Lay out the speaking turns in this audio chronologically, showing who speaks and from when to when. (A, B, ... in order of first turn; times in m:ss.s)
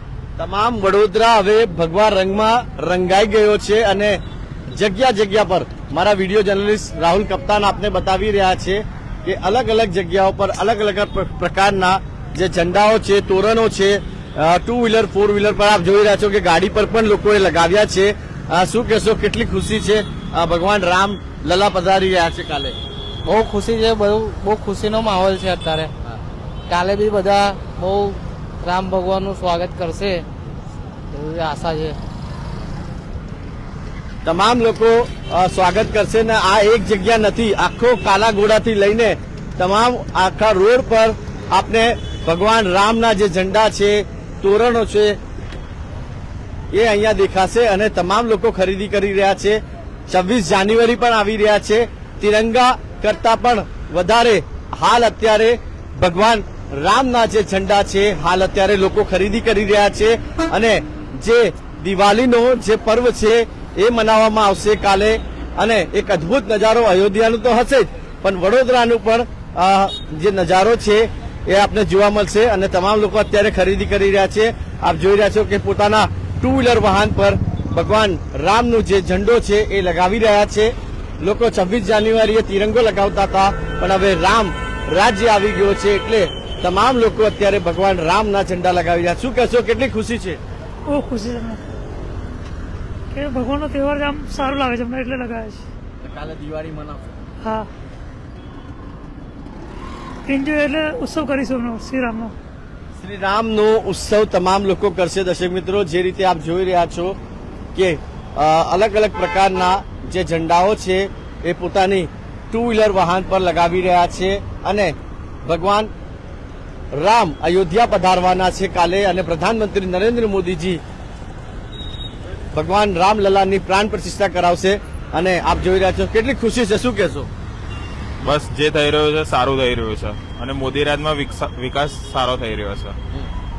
0:00.4-0:04.2 A
0:04.7-0:22.8 A
0:23.2-0:25.9 B
0:26.7-0:30.2 B
0:31.1-0:32.0 B
0:34.2-0:45.2 A
0:46.7-1:30.4 A
1:30.8-1:31.6 C
1:33.1-1:35.6 C
1:36.0-1:37.2 A
1:37.4-1:37.7 C
1:40.2-1:42.3 C
1:43.0-1:47.2 A
1:47.7-1:55.9 A
1:56.9-2:00.8 A
2:02.5-2:07.3 A
2:08.2-2:13.0 D